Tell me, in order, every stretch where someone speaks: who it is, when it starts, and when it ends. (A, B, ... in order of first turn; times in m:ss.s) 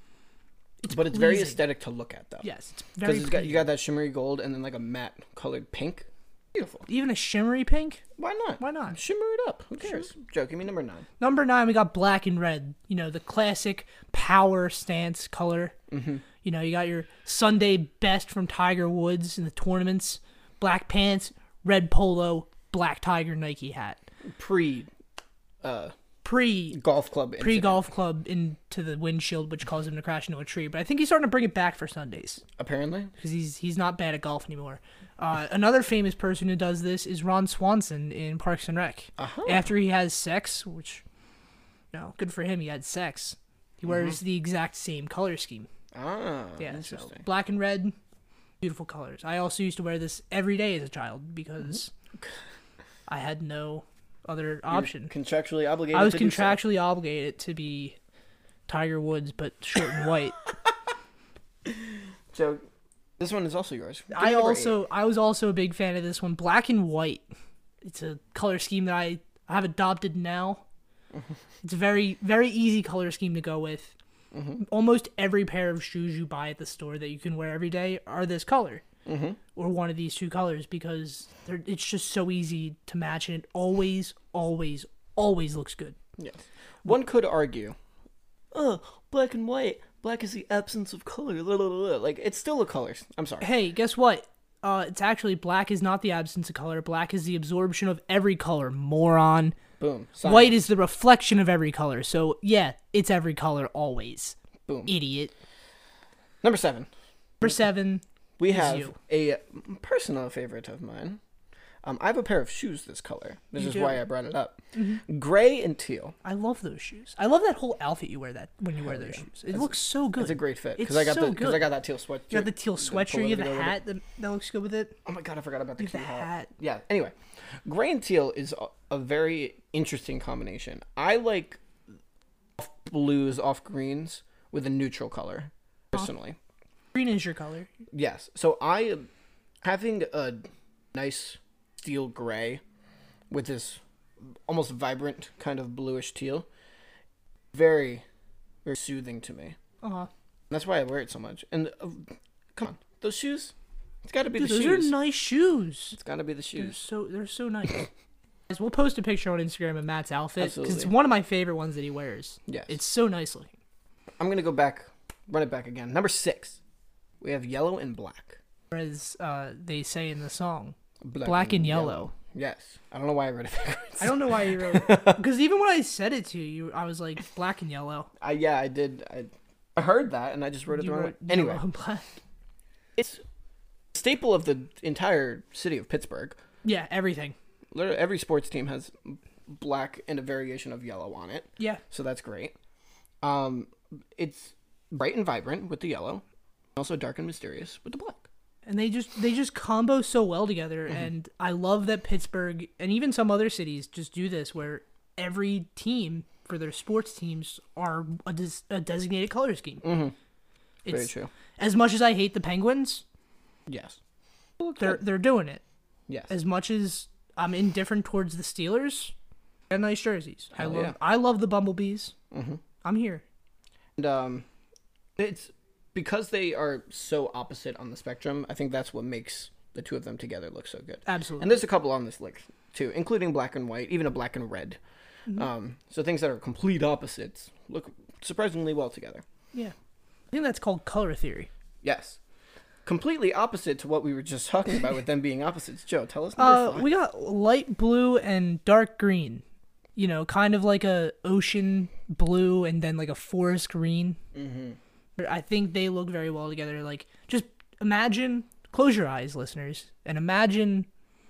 0:00.8-0:01.6 A
0:00.9-0:02.5 B
0:02.4-0:03.7 A
0:03.0-0:06.8 B
0:06.9-0:08.0 A
0:08.2-0:11.1 B
0:08.6-0:09.0 A
0:11.2-0:15.7 A
0:15.9-0:16.2 B
0:16.4-0:24.0 A
0:24.3-0:24.9 B
0:25.6-0:25.9 B
0:26.2-0:26.8 A
0:26.7-0:27.8 B
0:27.4-0:32.4 A
0:32.6-0:33.1 B
0:33.2-0:41.0 A
0:39.2-0:39.7 B
0:41.9-0:45.7 A
0:43.9-0:44.2 B
0:45.9-0:47.2 B
0:46.6-0:47.9 A
0:48.6-0:51.9 A
0:51.7-0:52.2 B
0:53.1-0:55.1 A
0:54.7-0:56.6 B
0:55.9-0:58.0 A
0:58.7-1:00.4 A
1:01.6-1:02.6 B
1:03.2-1:04.8 B
1:04.1-1:07.2 A
1:07.8-1:10.6 A
1:11.6-1:13.9 A
1:14.3-1:14.6 B
1:14.6-1:18.8 A
1:19.0-1:19.4 B
1:19.5-1:26.0 A
1:26.2-1:27.8 B
1:28.5-1:33.5 B
1:33.4-1:39.6 A
1:39.8-1:40.6 B
1:40.2-1:45.3 A
1:44.7-1:44.9 B
1:46.4-1:46.9 B
1:47.4-1:49.0 A
1:48.4-1:51.2 B
1:51.8-1:56.1 B
1:53.6-1:54.0 A
1:54.7-1:55.0 A
1:56.2-2:01.6 A
1:58.8-2:03.8 B
2:02.3-2:05.0 A
2:05.0-2:11.6 B
2:05.8-2:06.5 A
2:12.6-2:16.4 B
2:16.9-2:17.7 A
2:17.9-2:19.0 B
2:19.6-2:22.6 B
2:23.3-2:26.5 B
2:27.5-2:28.0 B
2:28.6-2:29.6 B
2:29.8-2:30.1 A
2:30.5-2:34.9 B
2:34.4-2:36.0 A
2:35.9-2:36.8 B
2:36.6-2:37.9 A
2:38.5-2:43.5 A
2:40.4-2:40.9 B
2:42.5-2:42.7 B
2:44.2-2:46.6 B
2:47.2-2:48.4 B
2:48.7-2:52.1 A
2:51.0-2:55.2 B
2:54.0-2:58.1 A
2:58.2-3:01.6 B
3:00.7-3:02.0 A
3:03.0-3:03.2 B
3:03.9-3:06.4 B
3:06.6-3:07.3 A
3:07.7-3:12.5 B
3:13.2-3:16.2 B
3:16.8-3:18.3 B
3:18.6-3:29.8 A
3:29.8-3:30.1 B
3:30.8-3:33.0 A
3:30.9-3:31.3 B
3:33.7-3:34.0 B
3:34.6-3:35.0 B
3:34.7-3:35.6 A
3:36.1-3:36.3 B
3:36.3-3:39.1 A
3:39.7-3:42.1 A
3:40.5-3:41.0 B
3:42.3-3:42.6 B
3:42.8-3:43.2 A
3:44.0-3:44.4 B
3:45.2-3:54.8 B
3:51.0-3:51.6 A
3:55.3-3:59.2 B
4:00.3-4:01.5 A
4:01.8-4:02.2 B
4:02.8-4:06.9 B
4:06.4-4:09.4 A
4:10.0-4:14.2 A
4:14.3-4:14.8 B
4:15.2-4:20.9 A